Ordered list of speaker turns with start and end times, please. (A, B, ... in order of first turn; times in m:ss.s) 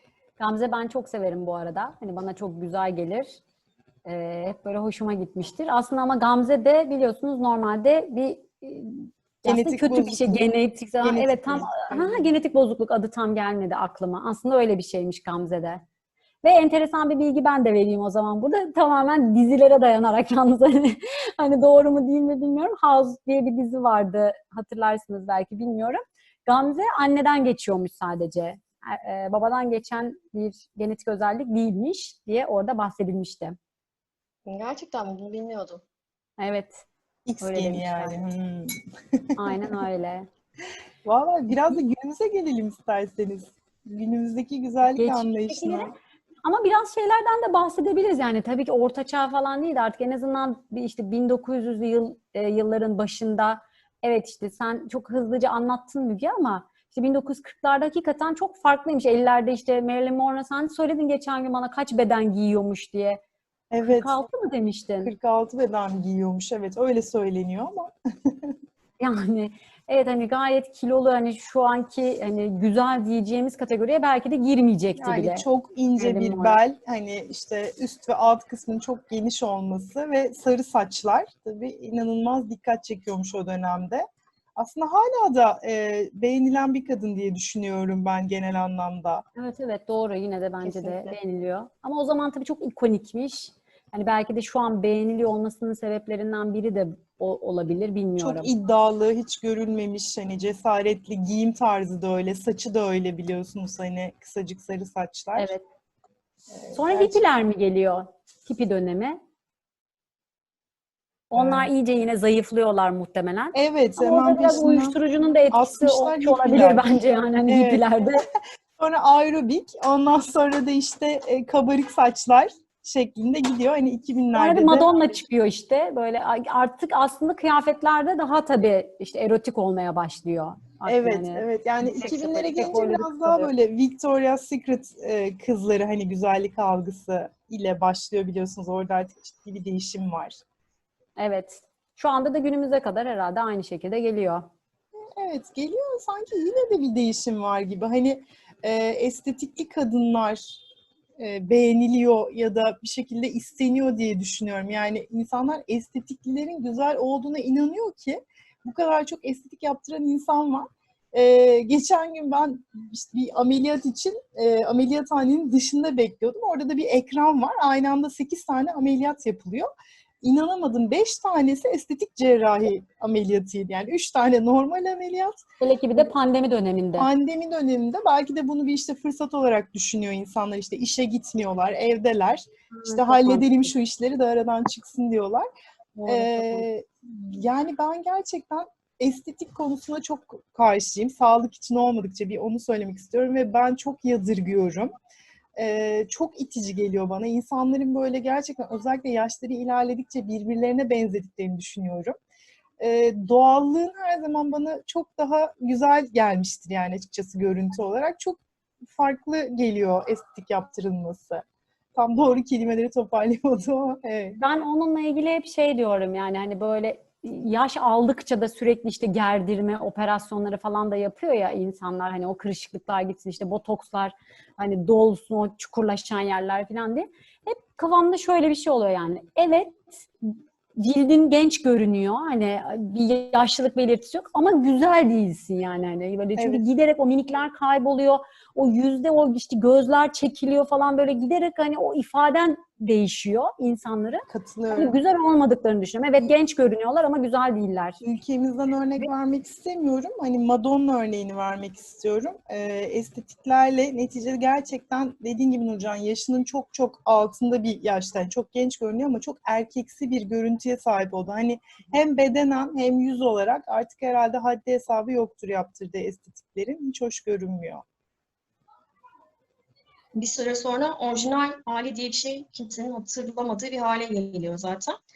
0:00.4-0:03.4 A
0:04.1-0:15.8 A
0:09.4-0:10.4 B
0:11.0-0:12.3 B
0:16.4-0:33.6 A
0:34.5-0:35.8 C
0:36.4-0:36.9 A
0:37.3-0:39.5 B
0:37.4-0:38.2 A
0:39.4-0:40.3 A
0:41.0-0:45.9 B
0:45.0-1:03.2 A
1:03.7-1:04.2 B
1:03.8-1:05.1 A
1:05.0-1:08.6 B
1:09.0-1:15.5 A
1:15.0-1:29.2 B
1:16.0-1:16.6 A
1:29.4-1:38.5 A
1:30.6-1:31.2 C
1:38.2-1:45.5 B
1:45.4-1:45.6 A
1:46.5-1:47.2 B
1:46.7-1:49.2 A
1:51.3-1:58.2 A
1:51.4-1:51.7 B
1:53.5-1:57.9 B
1:58.8-2:04.9 B
2:04.4-2:13.5 A
2:10.9-2:20.4 B
2:21.2-2:24.5 A
2:25.2-2:30.6 B
2:31.2-2:49.7 B
2:50.2-2:55.4 B
2:55.6-2:57.1 A
2:57.0-3:05.5 B
3:02.7-3:03.7 A
3:06.0-3:06.7 A
3:06.1-3:14.9 B
3:15.6-3:22.2 B
3:22.8-3:34.4 B
3:34.4-4:08.0 A
3:56.4-3:56.6 B
4:04.3-4:05.0 B
4:08.0-4:27.8 B
4:30.2-4:35.0 C